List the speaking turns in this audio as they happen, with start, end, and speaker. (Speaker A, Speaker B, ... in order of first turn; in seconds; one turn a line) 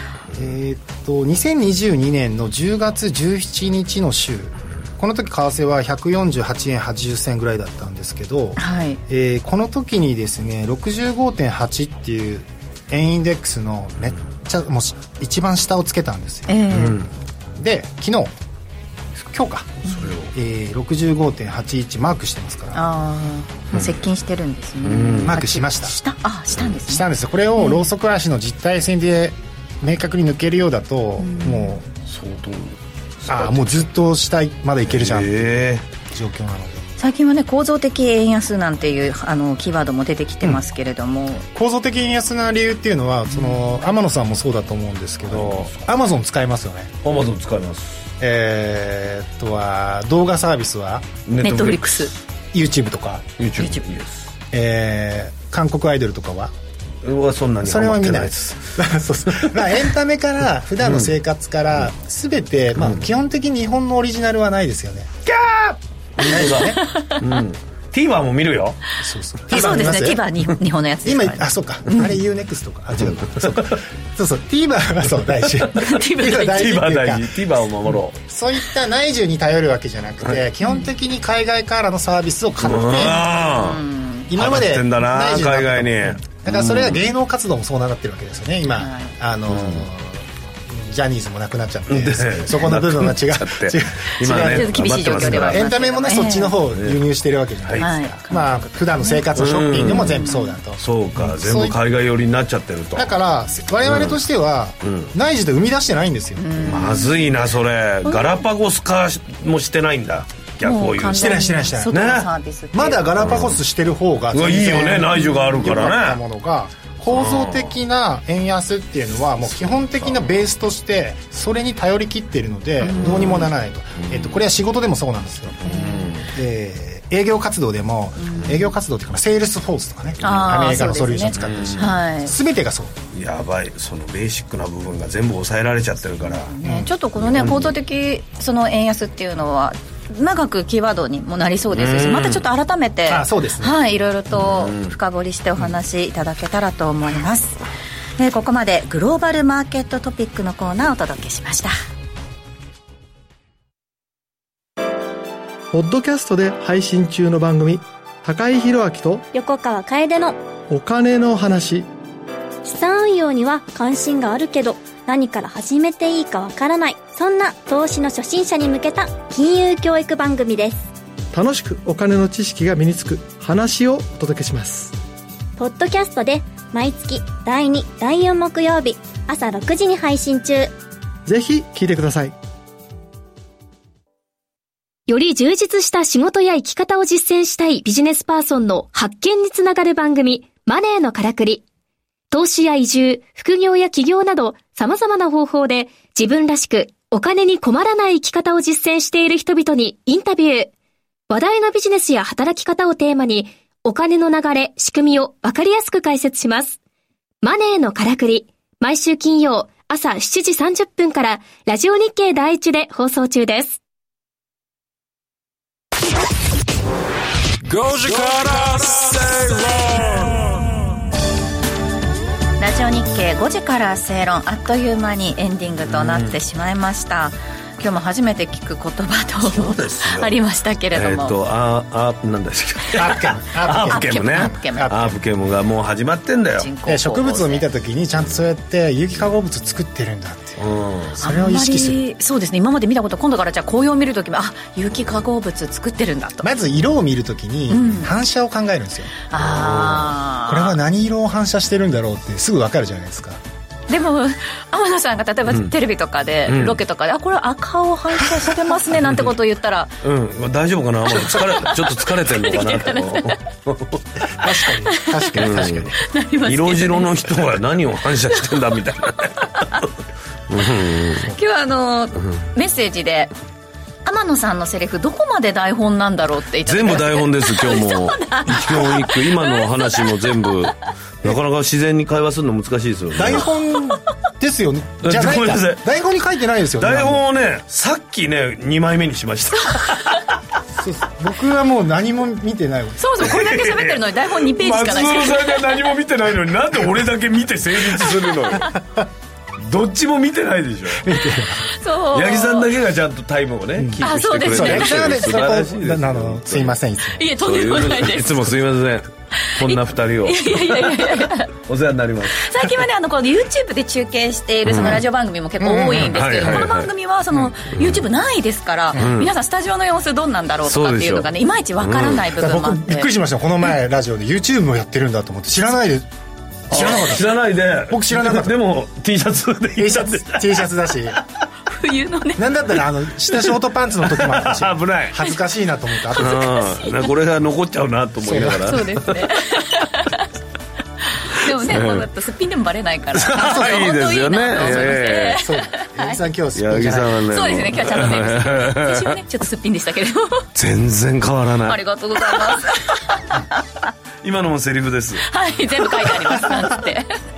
Speaker A: 0.3-16.9
Speaker B: 8.6-9.0
Speaker B: 16.5-17.0
Speaker C: 16.7-17.1
Speaker A: 17.6-18.3
Speaker A: 19.1-19.8
Speaker B: 19.9-20.1
Speaker C: 19.9-20.3
Speaker A: 20.3-22.8
Speaker B: 22.7-27.1
Speaker C: 24.8-25.4
Speaker A: 25.2-26.0
Speaker A: 26.8-31.9
Speaker B: 27.6-27.9
Speaker B: 31.2-31.8
Speaker C: 32.1-33.9
Speaker A: 33.3-36.9
Speaker C: 34.9-35.8
Speaker B: 37.0-41.5
Speaker A: 41.5-47.0
Speaker B: 43.3-43.9
Speaker C: 45.3-45.8
Speaker C: 47.0-48.1
Speaker A: 48.2-51.1
Speaker C: 51.3-52.0
Speaker B: 51.4-52.1
Speaker A: 52.5-53.3
Speaker C: 53.4-54.3
Speaker B: 53.6-53.8
Speaker A: 54.5-56.5
Speaker C: 57.0-58.6
Speaker A: 57.6-65.2
Speaker C: 60.8-61.1
Speaker C: 62.8-63.0
Speaker C: 65.3-68.8
Speaker A: 66.2-66.8
Speaker B: 66.8-67.2
Speaker A: 69.0-70.2
Speaker B: 69.5-72.0
Speaker C: 69.6-69.9
Speaker A: 71.0-77.4
Speaker C: 73.0-73.8
Speaker B: 75.8-76.8
Speaker C: 76.4-78.2
Speaker A: 78.2-83.2
Speaker C: 82.6-87.0
Speaker B: 83.0-84.3
Speaker A: 84.3-101.8
Speaker B: 88.8-89.1
Speaker C: 89.5-89.9
Speaker C: 91.9-95.7
Speaker B: 94.3-96.6
Speaker C: 96.7-97.0
Speaker B: 97.8-99.2
Speaker C: 99.3-100.2
Speaker B: 99.8-100.6
Speaker C: 100.8-103.1
Speaker A: 103.0-106.7
Speaker C: 103.8-104.2
Speaker C: 104.8-105.1
Speaker B: 106.4-107.3
Speaker C: 106.6-112.3
Speaker B: 110.6-113.2
Speaker A: 111.0-125.6
Speaker C: 113.2-113.6
Speaker C: 114.3-116.2
Speaker B: 115.2-115.6
Speaker C: 117.1-117.7
Speaker C: 119.5-120.2
Speaker B: 122.8-123.5
Speaker C: 123.0-123.5
Speaker C: 124.0-124.4
Speaker C: 125.6-126.3
Speaker B: 125.6-126.2
Speaker A: 126.3-132.9
Speaker B: 128.2-128.7
Speaker B: 130.2-132.3
Speaker C: 131.4-131.9
Speaker C: 133.1-136.5
Speaker B: 136.2-147.6
Speaker A: 136.6-136.9
Speaker C: 137.2-137.7
Speaker C: 141.7-142.5
Speaker A: 143.1-143.8
Speaker C: 144.3-144.9
Speaker B: 148.2-151.7
Speaker D: 155.7-159.2
Speaker E: 159.3-160.4
Speaker D: 160.7-161.9
Speaker E: 162.6-170.9
Speaker D: 171.3-175.0
Speaker E: 175.6-180.7
Speaker D: 181.3-182.3
Speaker F: 185.1-191.6
Speaker F: 192.3-200.7
Speaker F: 201.3-206.8
Speaker F: 207.4-213.8
Speaker G: 217.6-220.5
Speaker B: 222.6-231.4
Speaker C: 225.9-226.4
Speaker C: 229.4-230.4
Speaker C: 230.9-236.7
Speaker A: 233.0-235.2
Speaker B: 233.7-234.9
Speaker B: 236.6-237.7
Speaker A: 236.9-242.0
Speaker C: 240.6-241.2
Speaker B: 241.2-246.5
Speaker A: 246.4-249.1
Speaker B: 247.7-248.1
Speaker B: 249.3-250.8
Speaker C: 249.4-250.2
Speaker A: 250.5-253.4
Speaker B: 253.9-259.9
Speaker C: 256.5-256.8
Speaker C: 260.0-264.3
Speaker B: 261.2-263.4
Speaker A: 264.4-266.0
Speaker B: 264.9-267.4
Speaker C: 265.4-265.9
Speaker C: 266.5-269.9
Speaker B: 269.4-269.8
Speaker C: 270.5-271.3
Speaker B: 271.3-273.3
Speaker B: 274.0-280.6
Speaker C: 276.6-283.5
Speaker A: 283.1-287.2
Speaker C: 285.0-285.8
Speaker C: 286.8-290.2
Speaker A: 290.8-293.3
Speaker B: 293.0-295.7
Speaker C: 293.2-298.7
Speaker C: 299.6-301.1
Speaker A: 301.0-301.7
Speaker B: 301.7-302.7
Speaker C: 302.1-306.8
Speaker A: 303.8-307.3
Speaker B: 304.0-305.4
Speaker B: 307.2-308.4
Speaker C: 307.4-312.4
Speaker B: 309.5-311.5
Speaker B: 312.4-323.1
Speaker C: 314.7-315.0
Speaker A: 315.6-316.7
Speaker C: 315.9-316.9
Speaker C: 317.8-318.0
Speaker C: 318.9-319.3
Speaker C: 320.7-322.3
Speaker A: 322.4-326.1
Speaker A: 326.7-328.6
Speaker C: 326.7-331.2
Speaker A: 329.8-331.2
Speaker B: 331.7-332.4
Speaker A: 332.4-336.5
Speaker C: 334.1-335.2
Speaker B: 336.1-337.1
Speaker C: 336.2-339.8
Speaker A: 338.2-338.9
Speaker B: 338.6-340.3
Speaker B: 341.2-346.2
Speaker C: 341.6-342.1
Speaker C: 343.1-345.4
Speaker A: 343.3-343.9
Speaker A: 344.6-347.6
Speaker C: 346.6-349.2
Speaker B: 347.3-350.5
Speaker C: 350.6-351.8
Speaker B: 351.7-353.5
Speaker C: 354.2-355.3
Speaker B: 355.3-357.1